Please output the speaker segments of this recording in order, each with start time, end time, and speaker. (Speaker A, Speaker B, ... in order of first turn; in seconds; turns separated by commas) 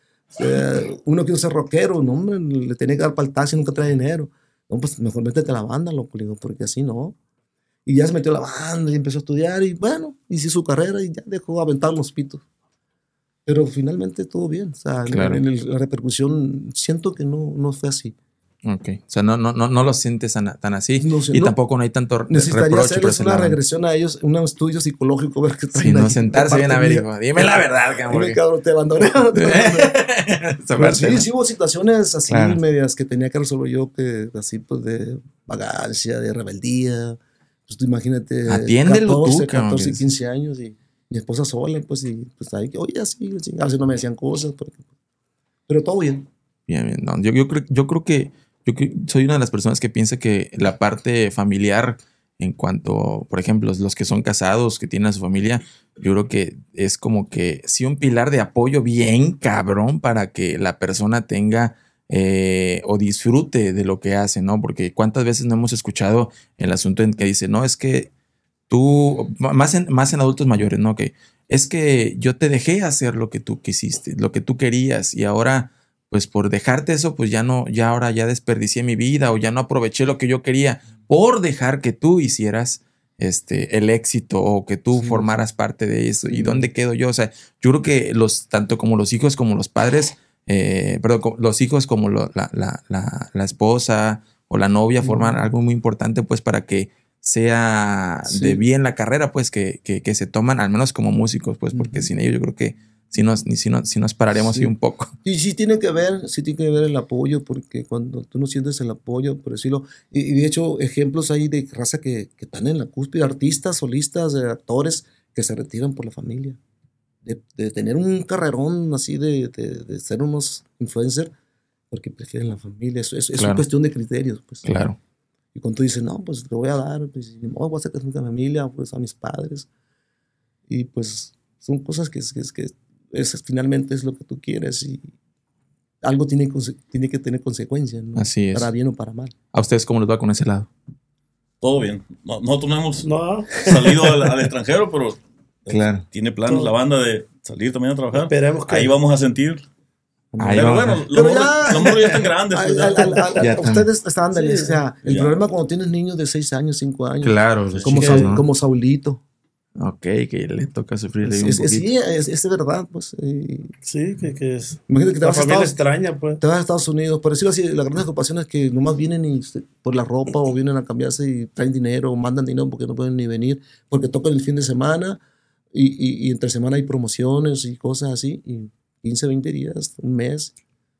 Speaker A: 0.3-7.2, Speaker A: 7.8-12.4, Speaker A: 13.4-18.1, Speaker B: 15.1-15.4, Speaker B: 18.6-23.6, Speaker A: 21.0-21.6, Speaker A: 22.3-29.9, Speaker B: 25.8-28.4, Speaker B: 29.3-31.3, Speaker A: 30.8-44.8, Speaker B: 32.3-32.6, Speaker B: 38.5-40.0, Speaker A: 45.7-46.3, Speaker B: 46.7-68.1, Speaker B: 68.7-105.1, Speaker A: 84.9-85.3, Speaker A: 86.2-86.7, Speaker A: 95.0-95.4, Speaker A: 98.2-98.6, Speaker A: 101.7-102.1, Speaker A: 104.3-104.7, Speaker A: 105.2-116.6, Speaker A: 117.2-121.3, Speaker A: 121.9-124.7, Speaker B: 123.4-123.7, Speaker B: 124.6-125.0, Speaker A: 125.5-129.7, Speaker A: 130.7-135.1, Speaker A: 136.0-139.3, Speaker B: 138.2-138.7, Speaker B: 139.5-140.7, Speaker C: 141.6-149.6, Speaker D: 143.0-143.9, Speaker B: 145.7-146.0, Speaker D: 146.4-146.7, Speaker D: 148.1-148.9, Speaker A: 150.3-159.2, Speaker B: 150.4-151.0, Speaker C: 150.5-153.3, Speaker D: 153.1-153.5, Speaker B: 153.4-153.9, Speaker D: 154.3-154.8, Speaker C: 155.0-155.3, Speaker B: 157.2-158.4, Speaker C: 157.7-158.1, Speaker D: 157.8-158.4, Speaker B: 159.8-161.9, Speaker A: 161.2-163.7, Speaker D: 163.8-166.4, Speaker A: 164.9-165.8, Speaker A: 166.4-175.2, Speaker A: 175.7-180.5